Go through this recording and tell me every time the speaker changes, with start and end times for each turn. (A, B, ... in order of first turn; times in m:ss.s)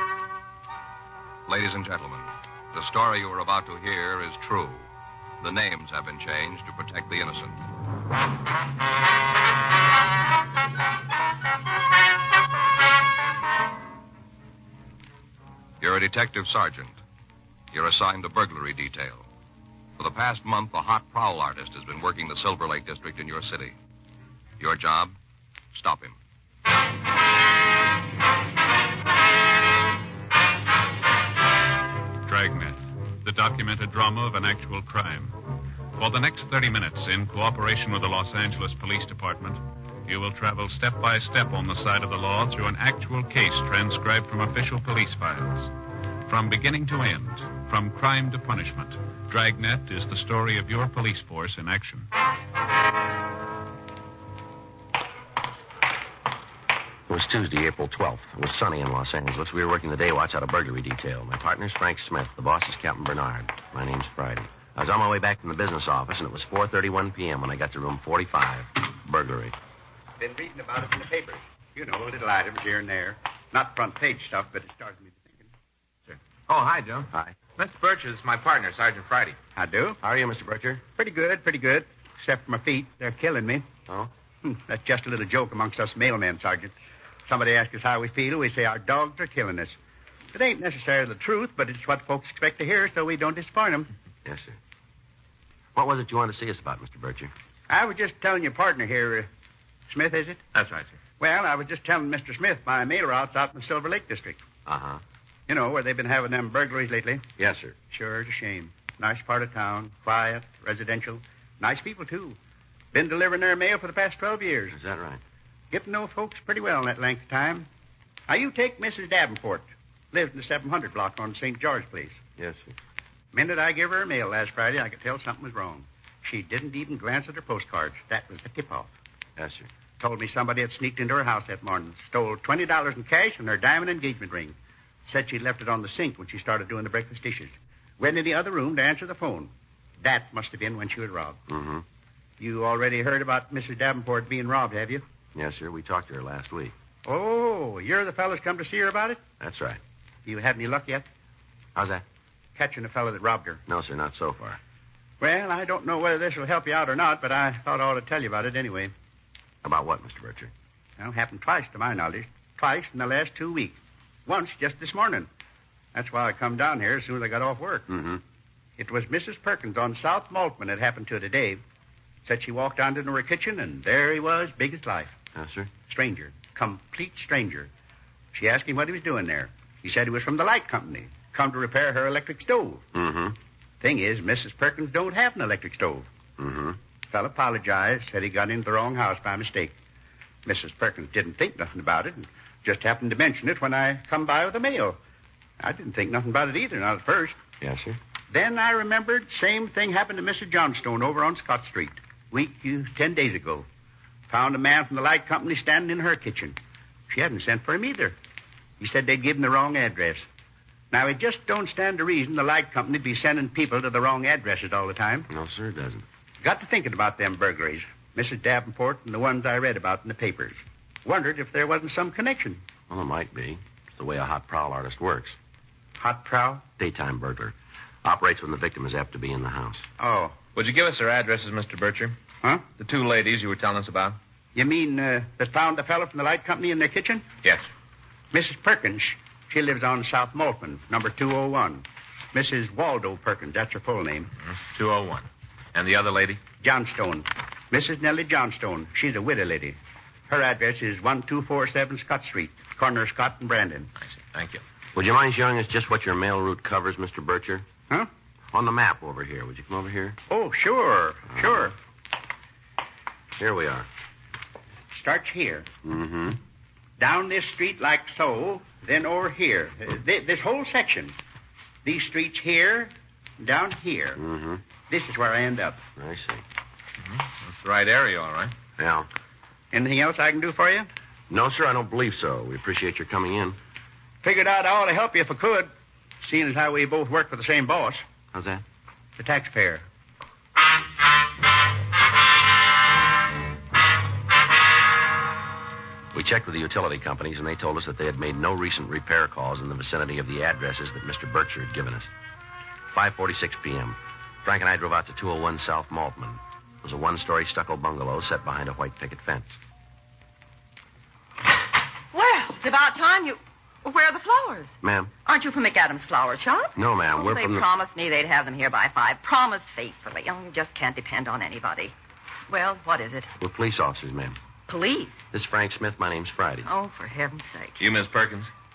0:01.5-0:04.9 A
0:05.4-0:07.6 A
0:15.8-0:17.0 A
0:17.7-0:19.2 A
0:20.0-0:23.7 A
0:24.6-0:25.2 A
0:25.7-0:26.2 A
0:32.3-0:35.4 B
0:36.0-0:45.7 B
0:46.3-0:52.1 B
0:57.1-1:09.6 C
1:10.2-1:15.5 D
1:16.1-1:19.4 E
1:17.1-1:17.4 C
1:19.6-1:20.0 D
1:20.0-1:20.8 C
1:21.0-1:23.7 D
1:24.4-1:26.7 D
1:27.2-1:29.7 D
1:30.3-1:33.9 D
1:34.2-1:34.6 C
1:35.7-1:37.3 C
1:37.7-1:39.3 D
1:39.9-1:40.4 D
1:40.5-1:41.0 E
1:41.2-1:44.4 D
1:44.7-1:45.0 C
1:45.5-1:47.3 D
1:47.4-1:47.8 C
1:47.9-1:52.4 D
1:52.9-1:54.8 D
1:54.7-1:55.2 C
1:55.7-1:57.7 D
1:58.3-2:02.2 D
2:02.4-2:02.7 C
2:03.3-2:08.9 D
2:09.4-2:09.7 C
2:10.0-2:21.4 D
2:21.5-2:21.8 C
2:22.4-2:25.0 D
2:25.3-2:26.7 C
2:27.0-2:29.2 D
2:29.4-2:29.8 C
2:30.2-2:31.1 D
2:31.8-2:32.0 C
2:32.6-2:33.6 D
2:33.7-2:34.6 C
2:35.2-2:38.9 D
2:39.6-2:40.5 C
2:41.0-2:45.3 D
2:45.9-2:47.9 D
2:47.9-2:48.2 C
2:48.8-2:51.6 D
2:52.2-2:55.2 D
2:55.3-2:55.7 C
2:55.9-2:57.7 D
2:58.3-3:02.8 D
3:02.9-3:03.4 C
3:03.8-3:06.1 D
3:06.4-3:06.8 C
3:07.1-3:09.8 D
3:10.4-3:15.0 D
3:15.6-3:17.4 D
3:17.6-3:18.0 C
3:18.3-3:23.7 D
3:24.3-3:26.6 D
3:27.1-3:28.1 D
3:28.8-3:30.2 D
3:30.9-3:35.3 D
3:35.3-3:36.0 C
3:36.4-3:42.6 D
3:42.9-3:45.4 C
3:46.0-3:46.7 D
3:46.8-3:49.8 C
3:50.0-3:50.4 D
3:50.5-3:52.2 E
3:52.4-3:52.7 D
3:52.8-3:54.2 E
3:54.5-3:57.3 D
3:58.3-4:04.3 D
4:04.5-4:06.4 E
4:06.6-4:09.8 D
4:10.3-4:13.9 D
4:14.0-4:14.6 E
4:14.9-4:17.7 C
4:18.5-4:20.2 C
4:20.3-4:21.7 D
4:21.3-4:21.7 C
4:23.4-4:23.9 C
4:24.9-4:25.7 D
4:25.8-4:26.4 C
4:27.0-4:31.1 D
4:31.8-4:34.2 D
4:34.2-4:34.6 C
4:34.9-4:35.8 D
4:36.0-4:36.4 C
4:37.0-4:38.5 E
4:38.8-4:39.1 C
4:39.7-4:40.9 D
4:41.3-4:43.6 C
4:44.2-4:45.7 D
4:46.2-4:48.0 D
4:48.3-4:48.6 C
4:49.2-4:49.8 D
4:56.1-5:02.1 C
5:02.9-5:09.6 C
5:12.1-5:14.7 F
5:14.8-5:15.1 C
5:15.2-5:21.9 F
5:16.8-5:17.7 C
5:22.5-5:23.3 F
5:23.4-5:24.4 C
5:24.7-5:25.2 F
5:25.3-5:26.7 C
5:26.6-5:27.8 F
5:27.8-5:28.5 E